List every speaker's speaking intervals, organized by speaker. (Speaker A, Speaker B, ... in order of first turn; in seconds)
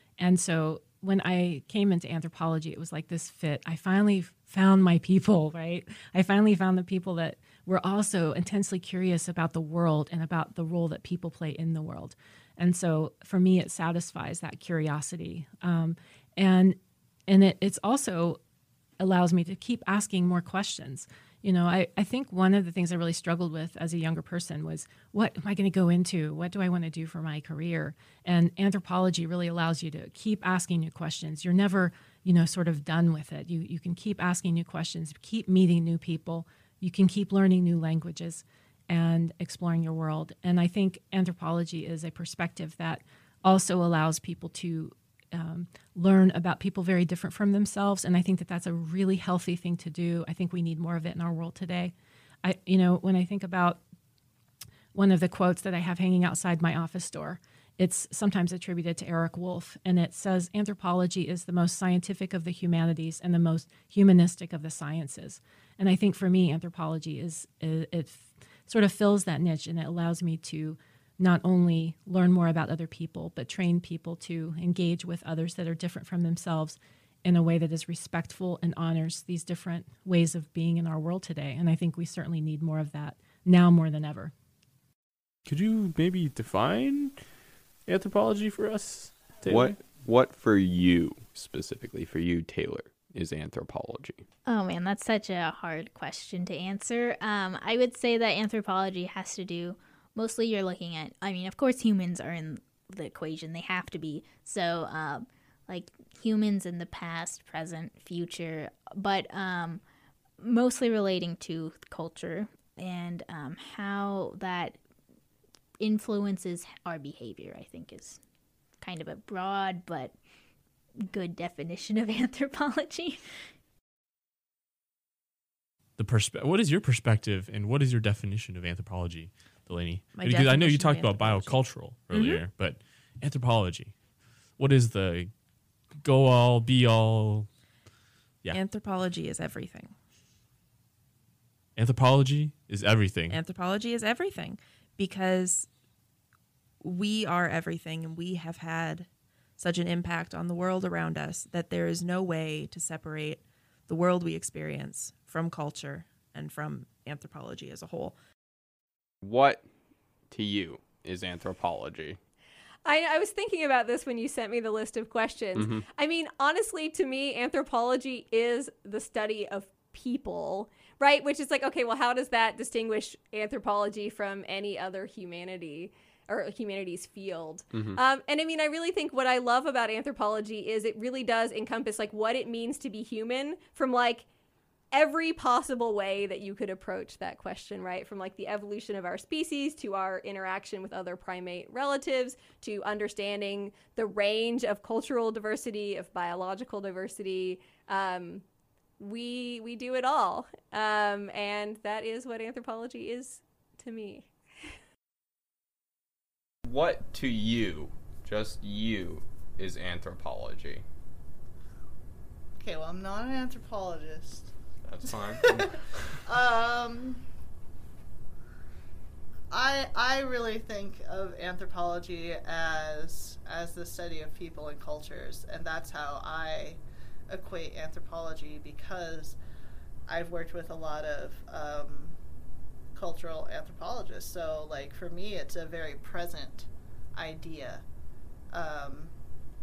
Speaker A: 0.2-18.4, 19.0-53.8, 54.9-84.3
Speaker B: 85.5-87.3, 87.8-89.8, 126.0-135.4, 135.9-137.5, 141.8-143.4
Speaker C: 89.4-94.2, 159.2-159.7, 160.3-162.2, 165.5-165.8, 177.7-178.0, 206.6-210.8, 214.8-215.6
Speaker D: 94.4-109.8, 110.4-114.8, 115.8-118.2, 118.8-120.2, 121.0-123.5
Speaker E: 130.1-132.5, 138.5-139.9, 143.3-145.7, 146.8-158.2
Speaker F: 162.8-184.3, 184.9-198.4, 199.0-204.3
Speaker G: 212.6-214.5, 215.1-217.3, 219.5-229.4, 230.1-232.2, 232.9-237.8, 238.5-239.1